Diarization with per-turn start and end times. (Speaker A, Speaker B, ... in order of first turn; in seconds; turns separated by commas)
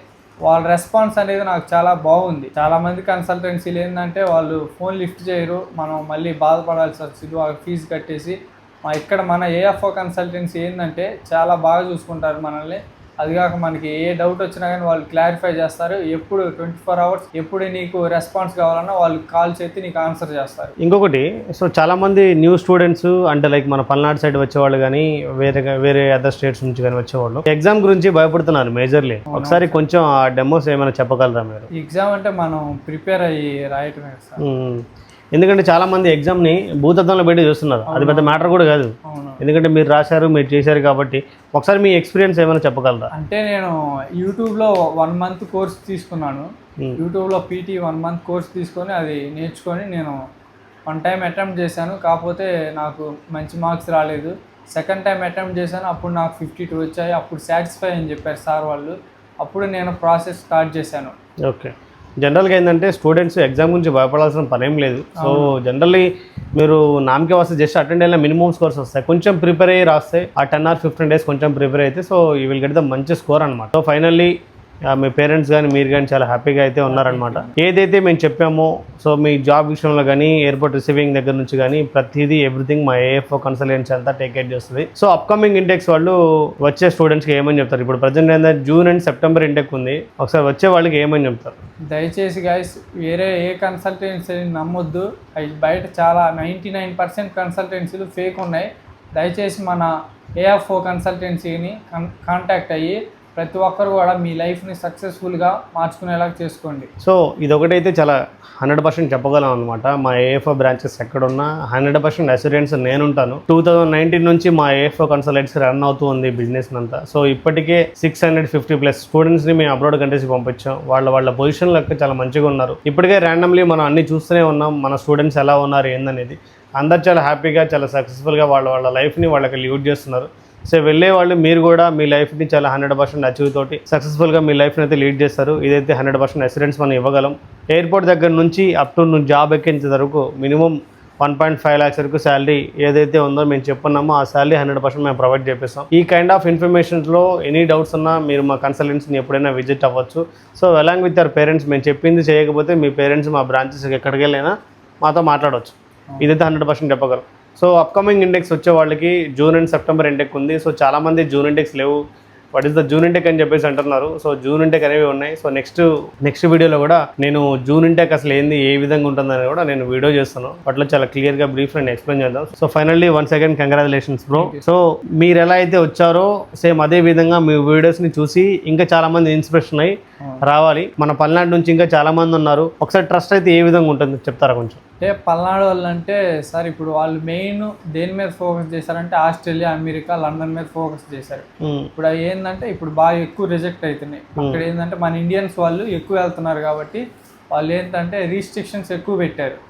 Speaker A: 0.5-20.7, Speaker B: 20.8-31.7, Speaker A: 29.3-29.8, Speaker A: 31.7-34.4, Speaker B: 34.4-34.8, Speaker B: 35.4-43.1, Speaker A: 37.9-38.5, Speaker A: 39.0-39.4, Speaker A: 43.1-50.2, Speaker A: 50.9-61.1, Speaker B: 61.5-74.3, Speaker A: 65.2-65.5, Speaker B: 74.9-91.6, Speaker A: 76.9-77.5, Speaker A: 91.9-106.9, Speaker B: 107.0-162.0, Speaker B: 162.5-184.8, Speaker A: 174.3-174.6, Speaker A: 185.0-199.6, Speaker B: 191.6-191.9, Speaker B: 194.4-194.6